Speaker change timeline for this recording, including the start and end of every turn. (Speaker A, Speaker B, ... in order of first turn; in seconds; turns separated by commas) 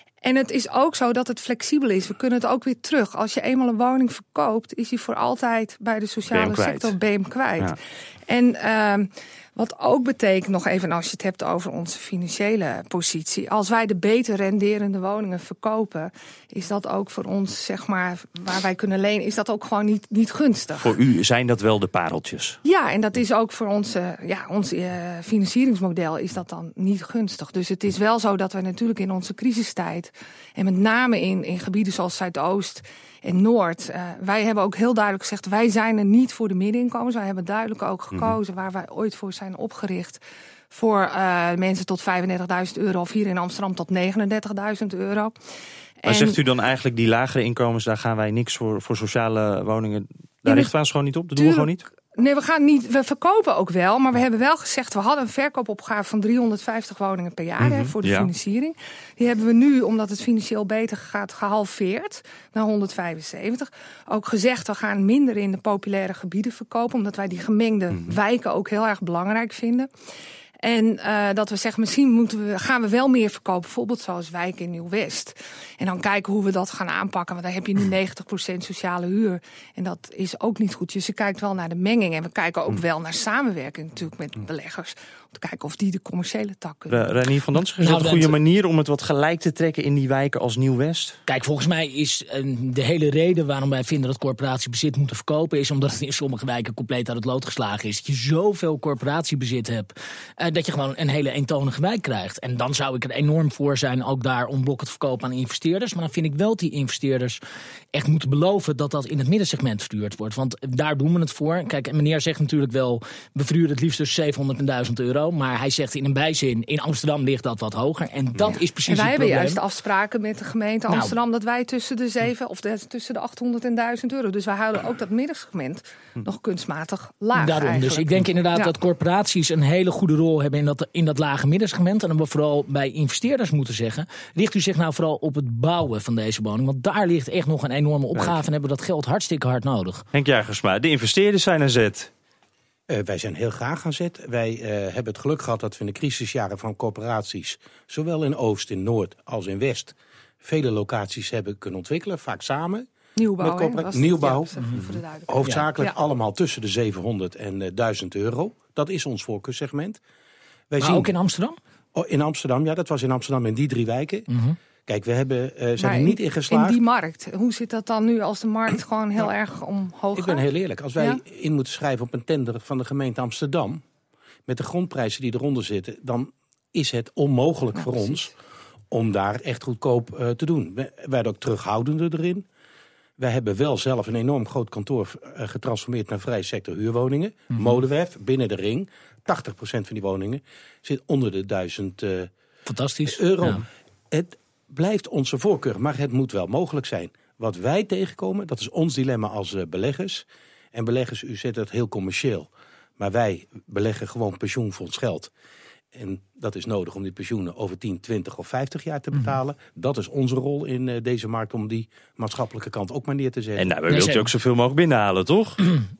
Speaker A: 0.2-21.0, Speaker B: 6.3-6.9, Speaker B: 20.8-22.6, Speaker A: 22.6-45.3, Speaker B: 38.1-38.4, Speaker A: 46.0-46.4, Speaker B: 46.0-51.8, Speaker A: 50.4-50.7, Speaker A: 51.4-69.9, Speaker B: 57.6-58.3, Speaker A: 70.6-87.2, Speaker B: 86.9-91.2, Speaker C: 87.8-88.3, Speaker C: 91.3-107.4, Speaker C: 107.9-119.6, Speaker A: 118.8-128.7, Speaker C: 120.9-121.2, Speaker C: 127.3-140.0, Speaker B: 138.1-138.4, Speaker B: 140.1-142.1, Speaker D: 142.9-152.9, Speaker A: 153.2-155.9, Speaker D: 153.4-154.5, Speaker D: 155.3-160.0, Speaker D: 160.7-161.1, Speaker C: 160.8-161.6, Speaker D: 161.9-164.3, Speaker C: 164.3-164.6, Speaker D: 164.8-166.8, Speaker A: 165.8-170.4, Speaker D: 170.1-173.8, Speaker D: 174.5-178.3, Speaker A: 177.8-178.2, Speaker D: 178.9-182.4, Speaker D: 183.2-192.3, Speaker C: 192.7-193.6, Speaker D: 193.1-205.3, Speaker D: 205.9-213.7, Speaker B: 213.6-215.7, Speaker C: 213.9-214.3